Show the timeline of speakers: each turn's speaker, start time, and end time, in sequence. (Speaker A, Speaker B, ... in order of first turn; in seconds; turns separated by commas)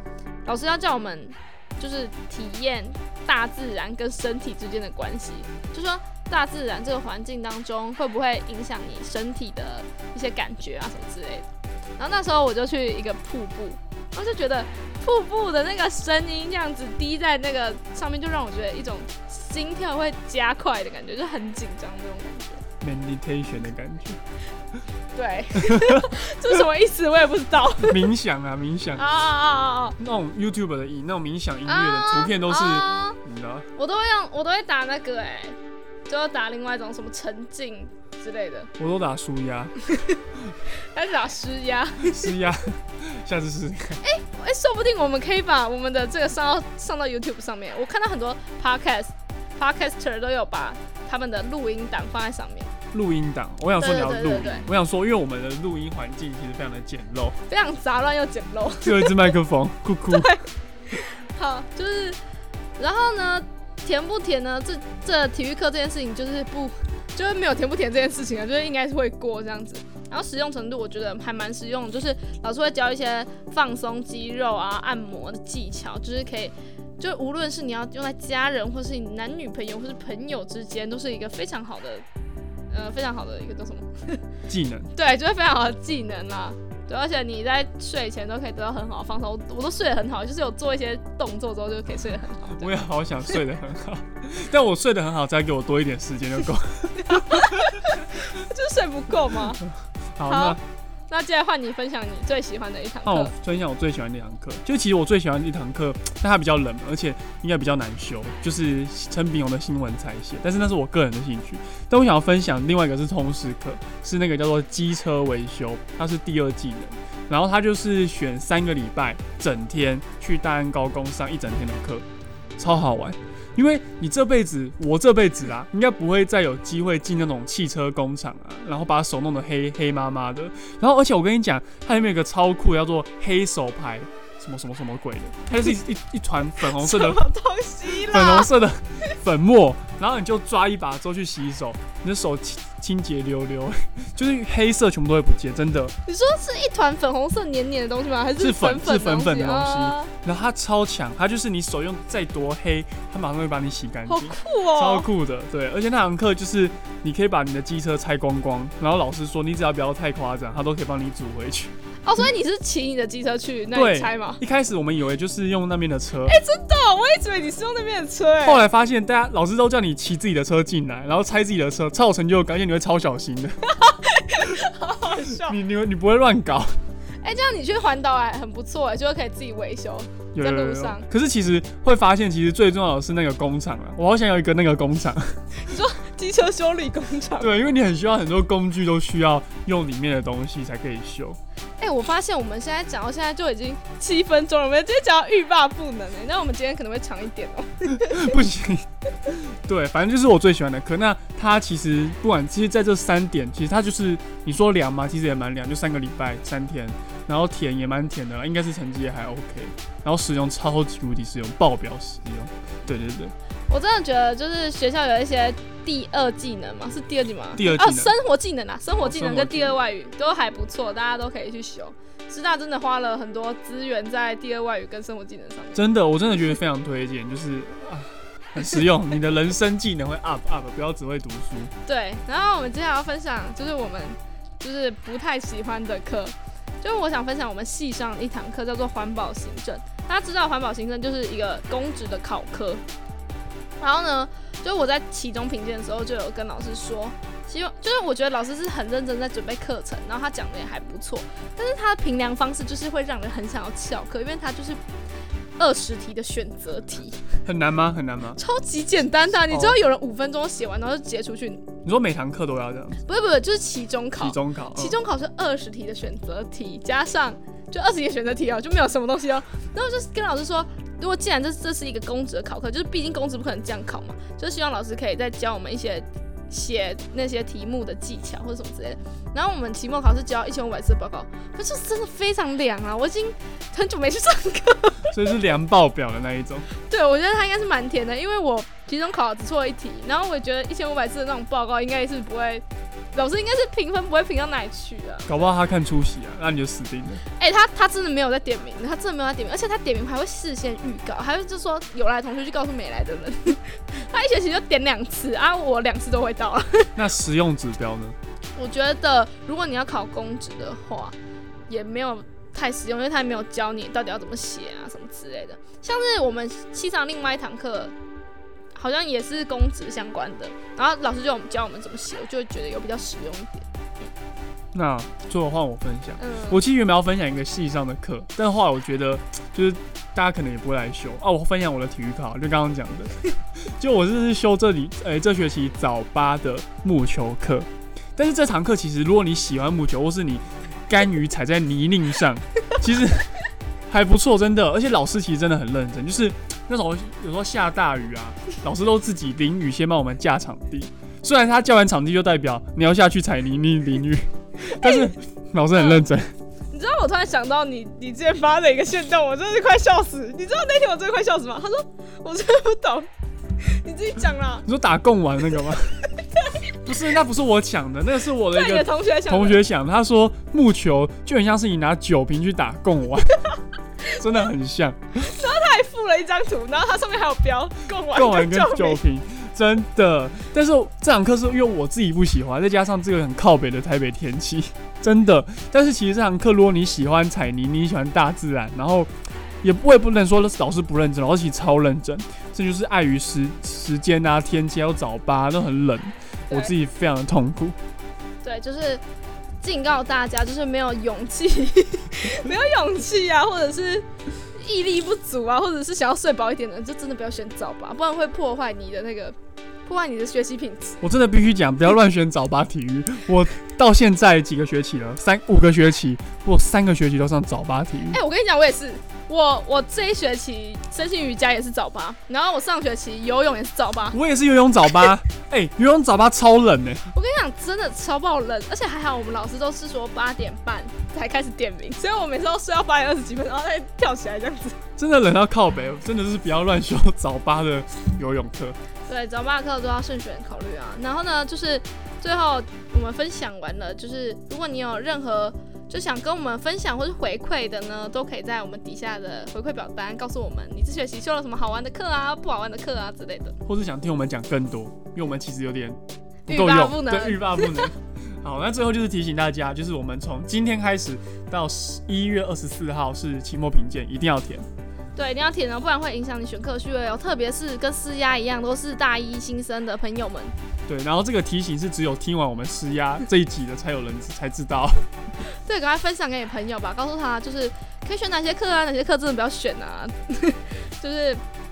Speaker A: 0.5-11.4, Speaker B: 0.5-11.2, Speaker A: 12.0-24.2, Speaker B: 12.5-22.6, Speaker A: 25.2-35.5, Speaker B: 25.2-28.2, Speaker B: 28.9-30.0, Speaker B: 31.6-35.5, Speaker A: 36.1-39.7, Speaker B: 36.1-38.5, Speaker B: 39.8-40.2, Speaker A: 41.0-49.0, Speaker B: 41.0-42.6, Speaker B: 43.9-49.1, Speaker B: 49.6-52.8, Speaker A: 49.6-60.4, Speaker B: 53.7-54.7, Speaker B: 57.5-59.4, Speaker B: 60.0-60.5, Speaker B: 61.0-62.2, Speaker A: 61.4-62.1, Speaker A: 62.8-82.0, Speaker B: 62.8-82.0, Speaker A: 82.8-83.8, Speaker B: 82.8-83.8, Speaker B: 84.5-93.4, Speaker A: 84.5-97.6, Speaker B: 96.8-99.6, Speaker A: 98.5-99.6, Speaker B: 100.2-100.6, Speaker A: 100.2-100.6, Speaker A: 101.1-122.0, Speaker B: 101.4-103.4, Speaker B: 113.9-115.9, Speaker B: 117.4-118.7, Speaker B: 119.2-119.5, Speaker B: 120.1-120.4, Speaker A: 122.6-173.6, Speaker B: 122.7-124.0, Speaker B: 125.1-126.1, Speaker B: 127.3-127.9, Speaker B: 135.4-135.8, Speaker B: 136.5-139.2, Speaker B: 139.9-140.6, Speaker B: 141.9-142.9, Speaker B: 146.1-150.4, Speaker B: 151.6-155.2, Speaker B: 156.8-157.1, Speaker B: 160.2-160.9, Speaker B: 162.1-164.5, Speaker B: 166.1-168.7, Speaker B: 173.7-175.9, Speaker A: 174.5-176.7, Speaker A: 177.2-198.8, Speaker B: 177.4-181.3, Speaker B: 185.6-187.8, Speaker B: 191.8-198.5, Speaker A: 199.7-236.3, Speaker B: 199.7-200.4, Speaker B: 201.2-205.5, Speaker B: 206.7-207.9, Speaker B: 209.9-210.3, Speaker B: 213.7-226.6, Speaker B: 228.6-229.9, Speaker B: 231.1-234.1, Speaker B: 234.6-236.3, Speaker A: 236.8-242.8, Speaker B: 236.9-242.3, Speaker A: 243.8-254.8, Speaker B: 244.8-246.2, Speaker B: 246.8-254.7, Speaker A: 255.6-276.0, Speaker B: 255.6-262.0, Speaker B: 263.0-285.6, Speaker A: 276.5-292.6, Speaker B: 286.7-292.6, Speaker A: 293.2-303.5, Speaker B: 293.2-295.9, Speaker B: 297.1-307.2, Speaker A: 304.1-311.1, Speaker B: 308.6-311.1, Speaker A: 311.7-317.9, Speaker B: 311.7-317.9, Speaker B: 318.8-323.6, Speaker A: 318.8-323.6, Speaker A: 324.7-333.1, Speaker B: 326.1-326.7, Speaker B: 329.3-330.2, Speaker A: 333.8-337.7, Speaker B: 336.8-337.4, Speaker A: 338.2-340.4, Speaker B: 340.3-343.3, Speaker A: 340.9-343.2, Speaker A: 343.9-354.3, Speaker B: 344.3-345.5, Speaker B: 346.5-346.8, Speaker B: 347.6-349.4, Speaker B: 353.5-356.2, Speaker A: 354.8-356.2, Speaker B: 356.7-363.0, Speaker A: 356.8-361.7, Speaker A: 362.2-363.1, Speaker B: 363.6-364.8, Speaker A: 363.8-365.9, Speaker B: 365.4-365.7, Speaker B: 366.8-367.4, Speaker A: 366.9-373.2, Speaker B: 368.1-369.7, Speaker B: 373.1-373.3, Speaker B: 374.0-374.5, Speaker A: 374.2-389.1, Speaker B: 375.1-379.1, Speaker B: 380.1-381.1, Speaker B: 381.6-382.0, Speaker B: 385.0-385.9, Speaker A: 389.6-397.8, Speaker B: 389.7-396.9, Speaker B: 398.4-399.0, Speaker A: 398.5-398.9, Speaker A: 399.6-404.0, Speaker B: 399.6-409.2, Speaker A: 404.6-409.4, Speaker A: 409.9-445.3, Speaker B: 409.9-412.1, Speaker B: 413.0-414.1, Speaker B: 416.2-416.7, Speaker B: 417.9-434.7, Speaker B: 437.6-438.3, Speaker B: 439.1-453.7, Speaker A: 445.9-455.9, Speaker B: 455.0-455.5, Speaker B: 456.5-457.9, Speaker A: 456.5-464.7, Speaker B: 458.5-459.5, Speaker B: 460.4-462.7, Speaker A: 465.2-474.9, Speaker B: 465.2-474.9, Speaker B: 475.5-481.4, Speaker A: 475.6-481.4